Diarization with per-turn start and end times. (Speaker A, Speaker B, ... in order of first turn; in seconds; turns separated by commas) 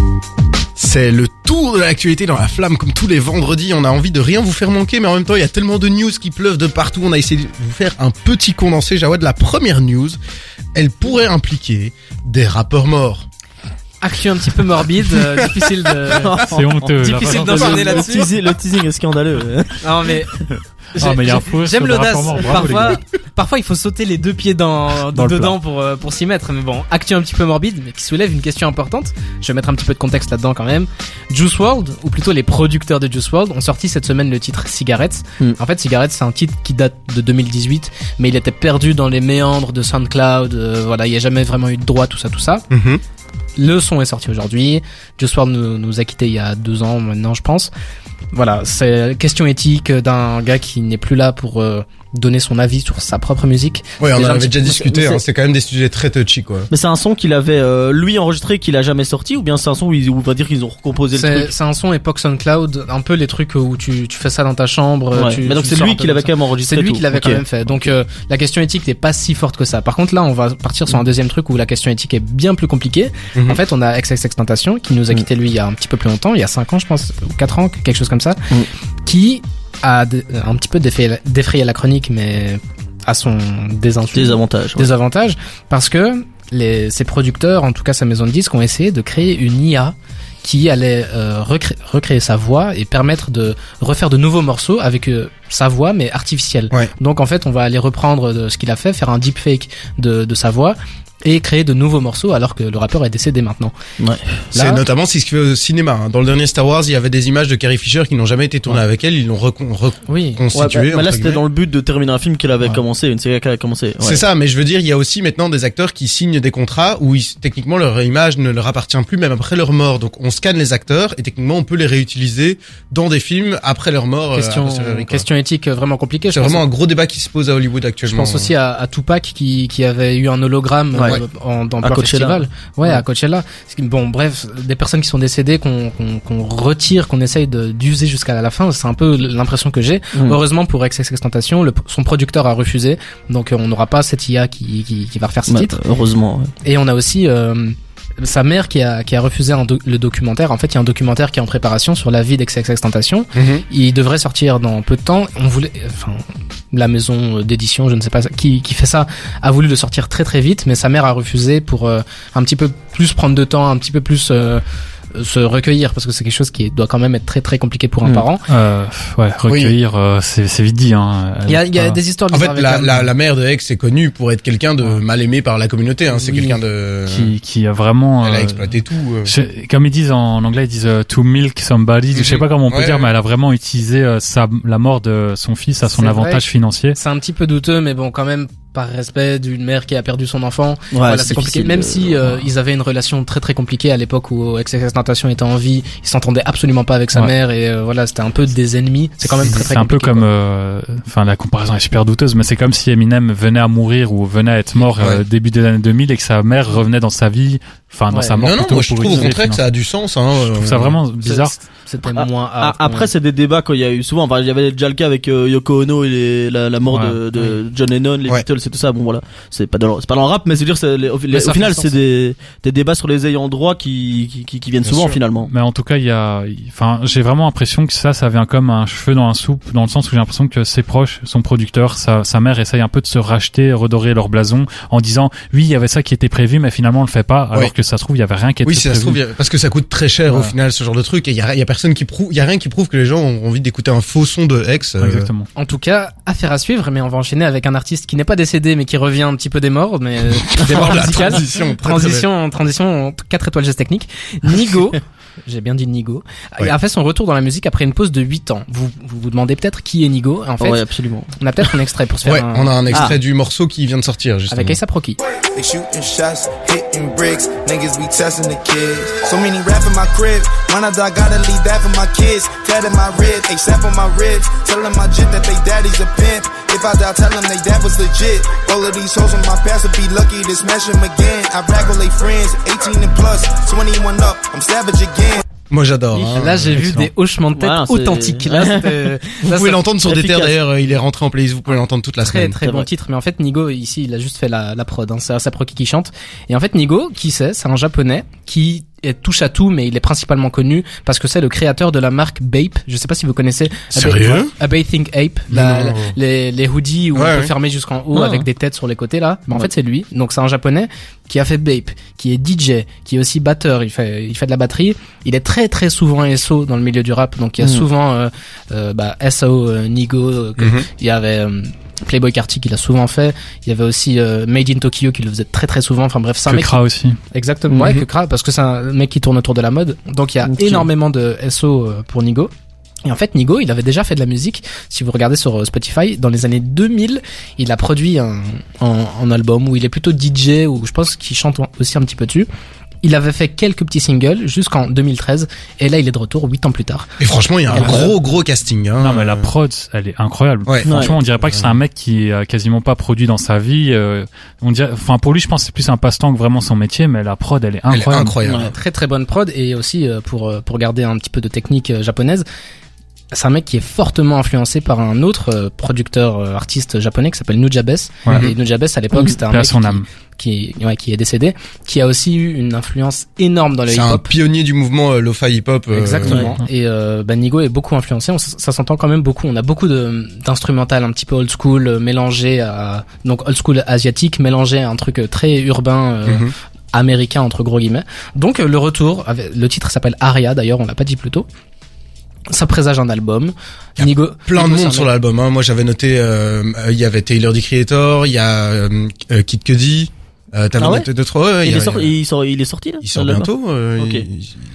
Speaker A: 0.8-10.2, Speaker A: 10.7-13.3, Speaker B: 14.0-16.4, Speaker A: 15.1-15.7, Speaker C: 16.1-19.8, Speaker D: 16.5-18.1, Speaker B: 17.0-18.3, Speaker B: 19.8-20.4, Speaker D: 21.0-23.0, Speaker B: 21.0-42.7, Speaker D: 25.1-25.6, Speaker A: 42.7-43.0, Speaker B: 43.6-47.7, Speaker B: 48.3-54.7, Speaker A: 54.0-56.7, Speaker C: 54.6-55.2, Speaker C: 56.7-61.5, Speaker B: 61.1-78.4, Speaker C: 65.1-67.4, Speaker B: 79.0-103.7, Speaker C: 84.1-84.9, Speaker C: 104.0-104.5, Speaker B: 104.5-104.8, Speaker A: 104.5-111.4, Speaker B: 110.1-110.4, Speaker C: 110.5-114.2, Speaker A: 114.0-125.2, Speaker B: 124.3-126.6, Speaker A: 126.3-128.5, Speaker B: 128.1-145.8, Speaker C: 130.9-131.2, Speaker C: 131.8-132.4, Speaker C: 140.2-140.4, Speaker C: 145.5-146.5, Speaker B: 146.6-168.4, Speaker A: 153.3-153.6, Speaker D: 168.1-172.0, Speaker A: 169.5-169.8, Speaker B: 171.5-173.1, Speaker A: 172.3-177.3, Speaker B: 176.1-176.6, Speaker D: 177.1-178.7, Speaker A: 178.2-179.3, Speaker D: 179.2-187.0, Speaker A: 182.1-183.1, Speaker B: 185.8-200.3, Speaker C: 190.9-192.5, Speaker D: 199.4-209.6, Speaker A: 205.0-205.2, Speaker B: 208.1-208.4, Speaker A: 208.4-211.0, Speaker D: 210.4-211.6, Speaker B: 211.2-213.1, Speaker C: 212.2-225.5, Speaker D: 216.9-217.2, Speaker B: 221.3-222.0, Speaker A: 224.8-225.2, Speaker D: 225.5-239.2, Speaker A: 238.6-245.3, Speaker D: 240.3-240.5, Speaker D: 245.0-245.5, Speaker B: 245.6-260.8, Speaker A: 250.4-252.3, Speaker C: 260.6-261.3, Speaker B: 261.4-262.8, Speaker A: 262.2-264.8, Speaker C: 262.9-263.2, Speaker B: 264.5-265.2, Speaker E: 265.5-285.4, Speaker A: 285.7-286.8, Speaker B: 286.1-290.5, Speaker D: 286.7-287.1, Speaker C: 287.6-288.9, Speaker A: 289.5-292.9, Speaker B: 292.2-326.8, Speaker A: 303.9-304.5, Speaker A: 305.5-306.2, Speaker A: 307.1-307.5, Speaker C: 308.1-308.5, Speaker C: 317.6-317.9, Speaker A: 320.6-320.9, Speaker D: 326.5-327.2, Speaker B: 327.3-332.5, Speaker C: 327.7-328.0, Speaker A: 327.8-328.1, Speaker C: 330.5-330.9, Speaker B: 333.1-342.5, Speaker B: 343.0-347.1, Speaker A: 347.2-349.5, Speaker B: 347.7-348.1, Speaker C: 347.8-348.1, Speaker D: 349.0-358.4, Speaker A: 350.7-351.8, Speaker C: 350.9-351.1, Speaker A: 357.9-358.7, Speaker C: 358.4-358.7, Speaker B: 358.6-362.5, Speaker B: 363.3-374.3, Speaker A: 368.3-368.5, Speaker D: 369.3-370.0, Speaker A: 373.9-376.5, Speaker B: 375.9-391.5, Speaker C: 376.3-376.5, Speaker A: 386.2-386.5, Speaker B: 392.5-395.1, Speaker A: 394.0-402.1, Speaker C: 400.8-401.1, Speaker C: 401.6-404.3, Speaker A: 403.0-404.6